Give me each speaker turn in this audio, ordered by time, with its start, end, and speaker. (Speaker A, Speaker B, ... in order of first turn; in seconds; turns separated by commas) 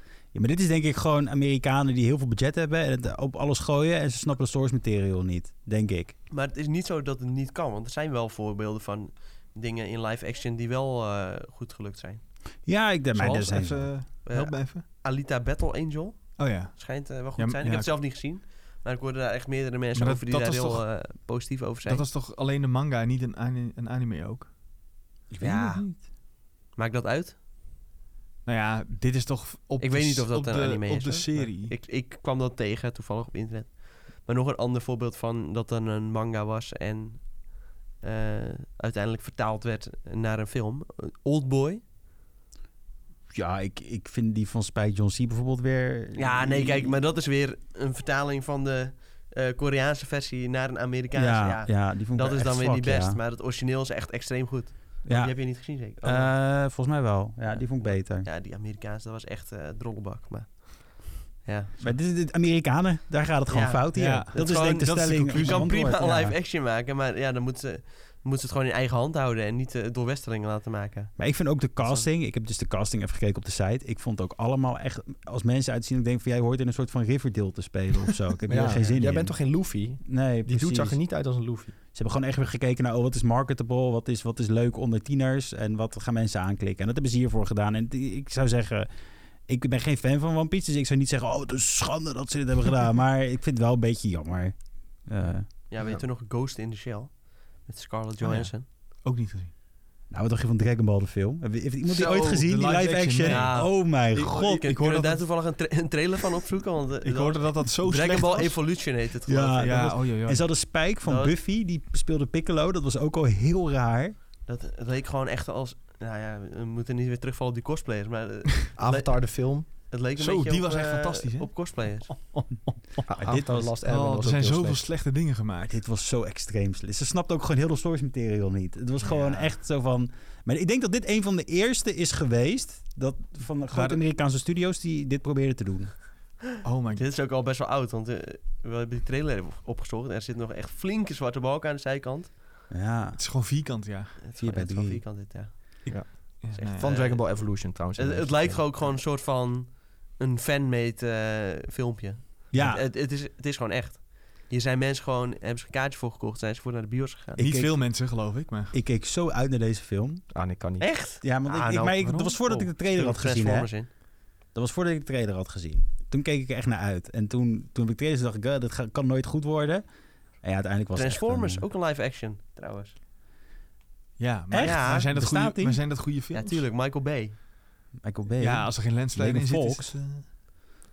Speaker A: 0.3-6.1, Speaker B: 6.3-12.2, Speaker A: 12.7-13.9, Speaker C: 13.1-14.8, Speaker B: 14.2-22.1, Speaker C: 16.4-17.9, Speaker C: 19.9-20.8, Speaker C: 21.9-24.5, Speaker A: 25.3-26.0, Speaker B: 25.4-26.0, Speaker B: 26.7-27.4, Speaker C: 28.4-31.7, Speaker B: 29.8-41.8, Speaker A: 43.3-47.0, Speaker B: 46.1-56.3, Speaker A: 51.1-53.2, Speaker A: 55.0-58.3, Speaker B: 57.5-61.8, Speaker A: 61.8-66.4, Speaker B: 63.5-71.1, Speaker C: 63.9-65.8, Speaker A: 71.2-79.3, Speaker B: 71.8-72.1, Speaker D: 78.5-81.8, Speaker A: 80.0-81.0, Speaker A: 81.9-88.9, Speaker A: 89.5-95.5, Speaker B: 95.7-98.7, Speaker C: 98.2-99.5, Speaker A: 100.1-104.7, Speaker B: 101.9-102.4, Speaker C: 102.4-105.3, Speaker B: 103.2-109.9, Speaker C: 107.0-108.7, Speaker A: 109.3-114.1, Speaker C: 109.6-110.4, Speaker B: 111.0-111.3, Speaker B: 114.5-122.1, Speaker D: 118.8-119.7, Speaker C: 120.2-125.8, Speaker D: 123.1-124.8, Speaker A: 123.1-123.7, Speaker A: 125.7-136.0, Speaker C: 129.0-129.5, Speaker C: 133.7-134.0, Speaker C: 136.6-137.1, Speaker B: 136.9-142.4, Speaker A: 142.7-143.2, Speaker C: 143.2-144.2, Speaker B: 144.2-157.4, Speaker A: 144.4-145.0, Speaker C: 145.8-146.8, Speaker D: 145.9-148.7, Speaker A: 152.5-152.8, Speaker C: 157.4-158.7, Speaker A: 157.4-157.7, Speaker A: 158.7-160.2, Speaker D: 160.3-160.9, Speaker B: 160.8-163.9, Speaker A: 161.2-163.9, Speaker A: 164.5-169.8, Speaker A: 170.4-171.6, Speaker B: 170.9-172.9, Speaker C: 174.2-176.7, Speaker A: 174.5-175.8, Speaker B: 174.6-175.1, Speaker B: 176.3-177.3, Speaker A: 178.0-180.0, Speaker C: 178.4-180.2